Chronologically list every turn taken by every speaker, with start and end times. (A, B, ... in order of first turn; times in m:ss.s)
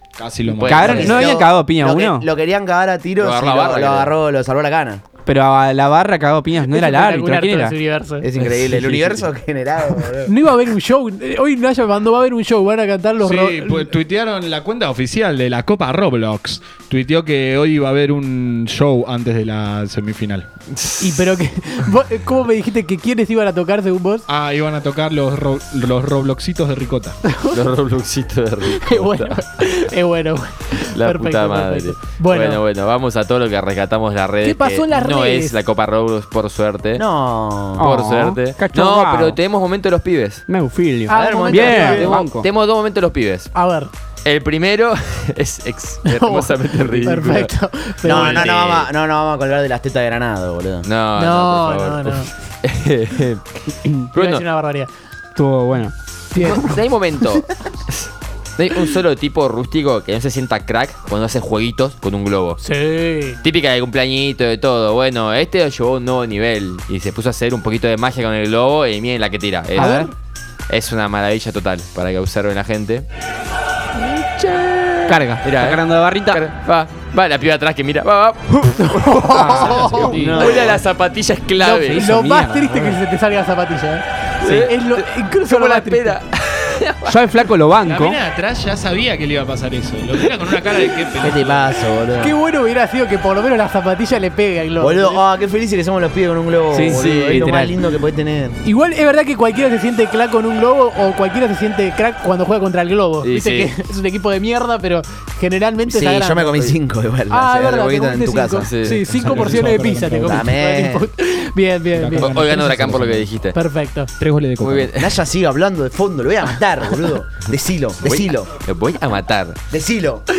0:00.2-0:01.3 A
0:00.4-0:01.2 B
0:00.6-0:02.3 C
0:00.9-0:05.0 D
0:03.2-0:04.1 B
0:05.2-0:07.7 C
0:06.7-0:08.3 E
0:08.2-0:10.3 D
0:08.4-0:09.1 C
0:10.2-0:14.0 E
0:13.2-0:20.5 A
0:20.7-0:21.2 B
0:21.0-0:24.2 E
0:24.3-0:27.2 A
0:27.2-0:27.6 E
0:27.5-0:29.4 B
0:28.6-0:32.6 E
0:30.9-0:37.0 B
0:34.4-0:35.6 E
0:37.0-0:37.8 D
0:37.8-0:39.4 C
0:37.8-0:40.4 B
0:40.5-0:42.5 C
0:41.1-0:42.1 E
0:41.1-0:42.1 D
0:41.9-0:43.5 B
0:43.5-0:43.9 E
0:44.2-0:47.5 B
0:46.0-0:48.5 E
0:46.9-0:47.2 C
0:48.0-0:48.9 B
0:48.0-0:50.9 D
0:50.8-0:53.4 B
0:51.1-0:52.3 E
0:54.1-0:54.4 B
0:54.1-0:54.9 E
0:55.3-0:55.9 C
0:56.3-0:56.8 E
0:56.3-1:02.6 B
1:02.6-1:03.4 E
1:03.4-1:10.1 B
1:09.8-1:10.1 C
1:09.8-1:10.0 E
1:10.7-1:13.1 B
1:13.9-1:22.1 B
1:15.1-1:16.4 C
1:18.7-1:20.3 E
1:19.3-1:19.8 C
1:19.6-1:20.5 A
1:20.1-1:20.8 D
1:21.6-1:26.2 E
1:21.7-1:23.0 C
1:24.4-1:27.2 B
1:27.1-1:28.2 C
1:27.8-1:31.6 A
1:31.2-1:32.4 D
1:32.2-1:35.2 E
1:34.8-1:38.6 D
1:36.7-1:37.8 C
1:36.8-1:37.5 B
1:38.6-1:46.8 E
1:43.2-1:43.7 B
1:45.8-1:48.7 D
1:47.3-1:52.4 E
1:48.6-1:49.4 B
1:48.9-1:50.5 A
1:50.2-1:51.1 D
1:51.9-1:53.3 A
1:52.2-1:53.6 B
1:53.5-1:54.1 E
1:54.2-1:55.0 A
1:54.6-1:55.2 B
1:55.0-1:58.5 D
1:58.0-1:59.6 B
1:59.7-2:00.3 D